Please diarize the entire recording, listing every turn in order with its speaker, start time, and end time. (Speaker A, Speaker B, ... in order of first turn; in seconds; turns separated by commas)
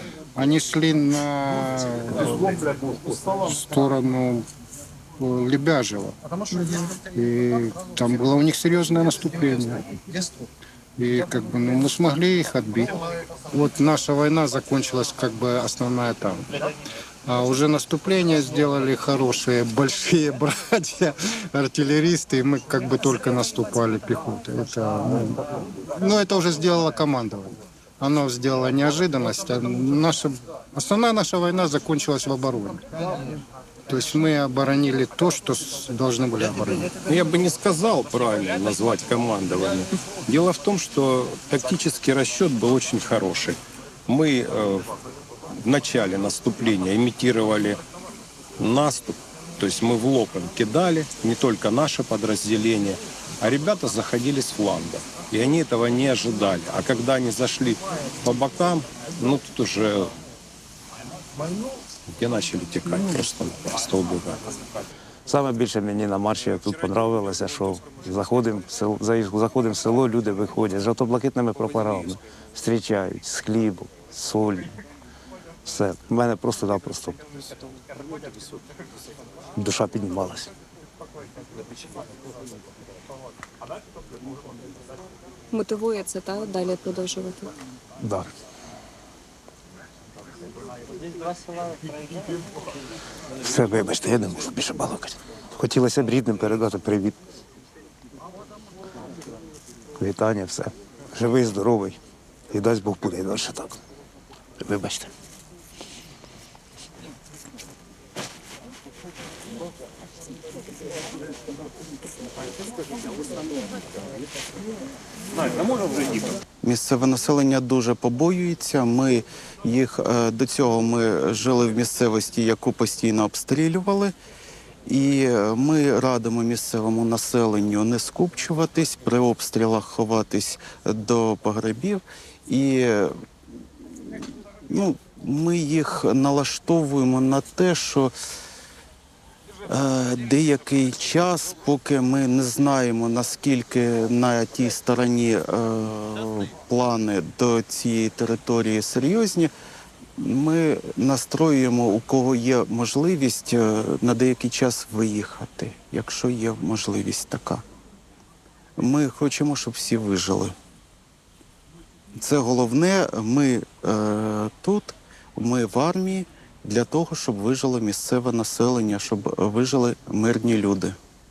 Speaker A: 0.4-2.3, Speaker B: 2.7-3.2, Speaker A: 3.4-4.5, Speaker A: 5.2-6.2, Speaker A: 6.9-9.8, Speaker A: 11.0-13.0, Speaker A: 13.5-16.4, Speaker A: 17.3-25.4, Speaker A: 26.0-32.8, Speaker A: 33.9-36.9, Speaker B: 37.1-44.9, Speaker B: 45.6-47.8, Speaker B: 48.6-60.1, Speaker B: 62.2-64.5, Speaker C: 65.3-74.7, Speaker C: 75.7-77.2, Speaker C: 79.6-80.5, Speaker D: 85.5-87.5, Speaker C: 88.0-88.3, Speaker C: 93.4-97.2, Speaker C: 100.0-102.0, Speaker C: 102.5-103.8, Speaker C: 104.6-105.1, Speaker E: 116.6-124.1, Speaker E: 124.9-133.1, Speaker E: 133.9-138.1, Speaker E: 139.7-149.5, Speaker E: 150.2-157.6, Speaker E: 158.8-160.5, Speaker E: 162.2-171.0